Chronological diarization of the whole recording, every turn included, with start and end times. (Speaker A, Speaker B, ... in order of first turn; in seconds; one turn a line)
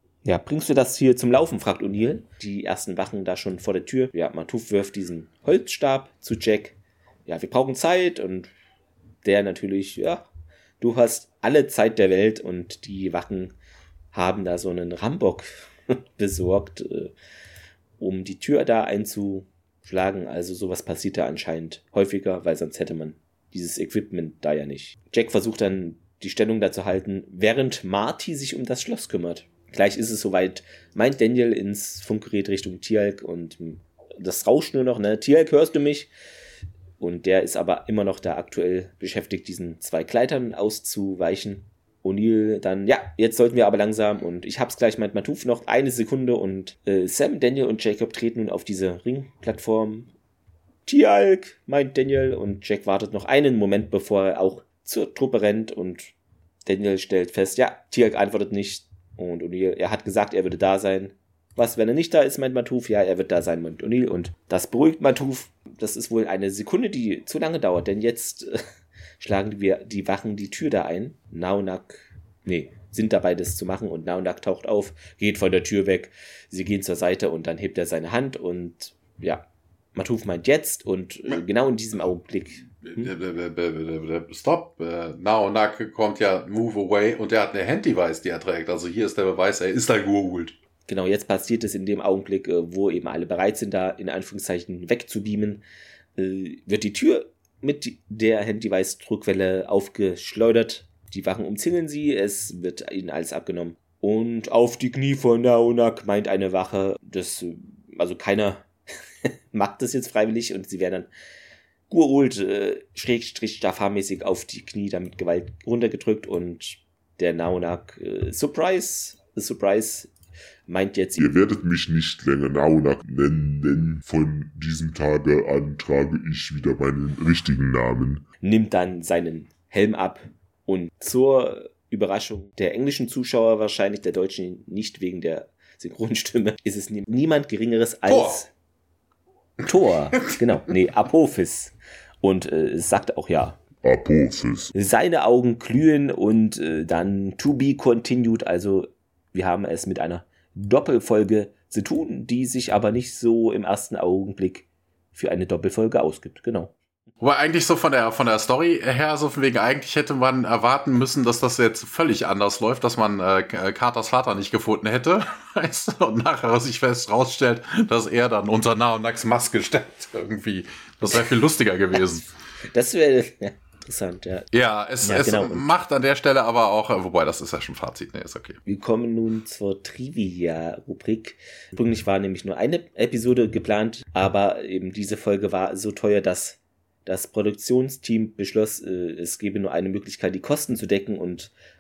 Speaker A: 0.2-8.5
Speaker A: 9.2-10.3
Speaker A: 10.8-13.6
Speaker A: 14.1-17.1
Speaker A: 18.0-36.1
Speaker A: 37.0-50.1
Speaker A: 50.9-56.1
Speaker A: 56.7-68.6
Speaker A: 69.2-83.1
Speaker B: 82.9-90.5
Speaker A: 90.9-95.6
Speaker A: 96.2-108.7
Speaker A: 109.2-111.1
Speaker A: 111.9-120.1
Speaker A: 120.7-121.3
Speaker C: 121.2-128.2
Speaker A: 128.4-138.5
Speaker B: 138.1-138.4
Speaker A: 139.6-143.6
Speaker C: 143.8-144.7
Speaker A: 144.7-156.7
Speaker B: 157.2-172.3
Speaker A: 172.7-174.5
Speaker B: 174.5-178.6
Speaker A: 175.0-175.7
Speaker A: 178.7-191.5